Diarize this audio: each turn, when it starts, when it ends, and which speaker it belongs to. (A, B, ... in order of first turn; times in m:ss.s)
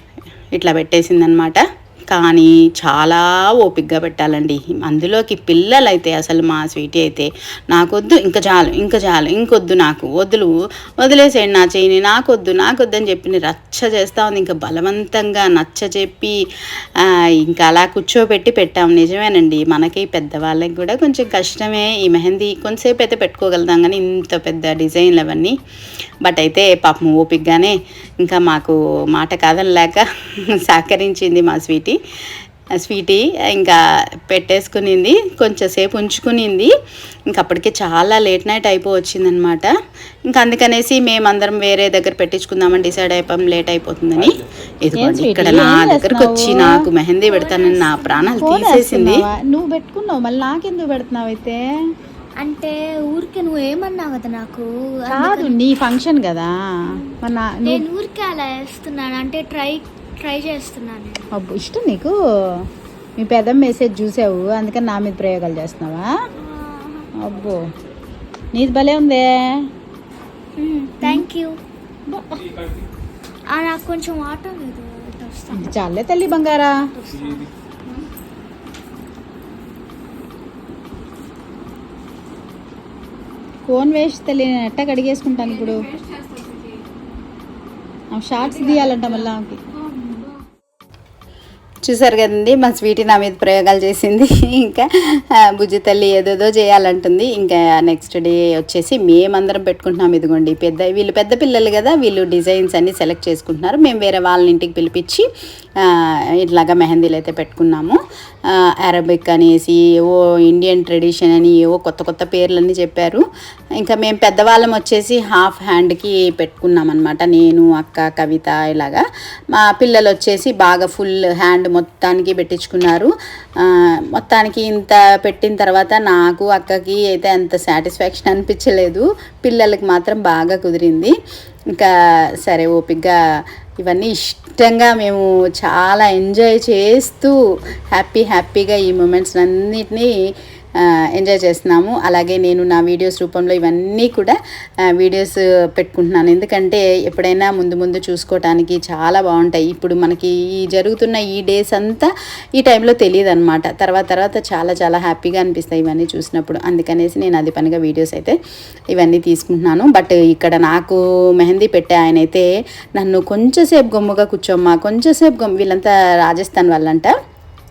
0:00.5-0:16.3 A
0:17.0-0:25.5 A
0:26.2-0:30.0 A
0:30.6-0:32.0 A
0:32.8-0:33.8 A
0:34.3-0:36.7 A
0:37.3-0:39.7 A
0:40.3-0:49.3 A
0:45.0-0:46.7 B
0:47.2-0:48.5 C
0:48.4-0:51.6 B
0:52.4-0:55.6 C
0:55.1-0:56.5 B
0:57.2-0:57.8 B
0:57.6-1:01.3 C
1:01.4-1:02.1 B
1:03.2-1:06.1 B
1:06.4-1:07.1 C
1:07.2-1:07.6 B
1:08.5-1:09.3 B
1:10.6-1:11.6 C
1:13.5-1:17.5 C
1:15.5-1:16.7 B
1:23.7-1:25.8 B
1:28.2-1:29.6 B
1:28.6-1:29.2 A
1:31.8-1:45.2 A
1:45.8-1:48.0 A
1:48.8-1:53.2 A
1:53.8-2:03.1 A
2:03.6-2:11.1 A
2:12.4-2:13.1 A
2:13.8-2:17.4 A
2:17.9-2:20.1 A
2:21.2-2:24.4 A
2:25.0-2:32.1 A
2:32.6-2:38.4 A
2:38.9-2:47.1 A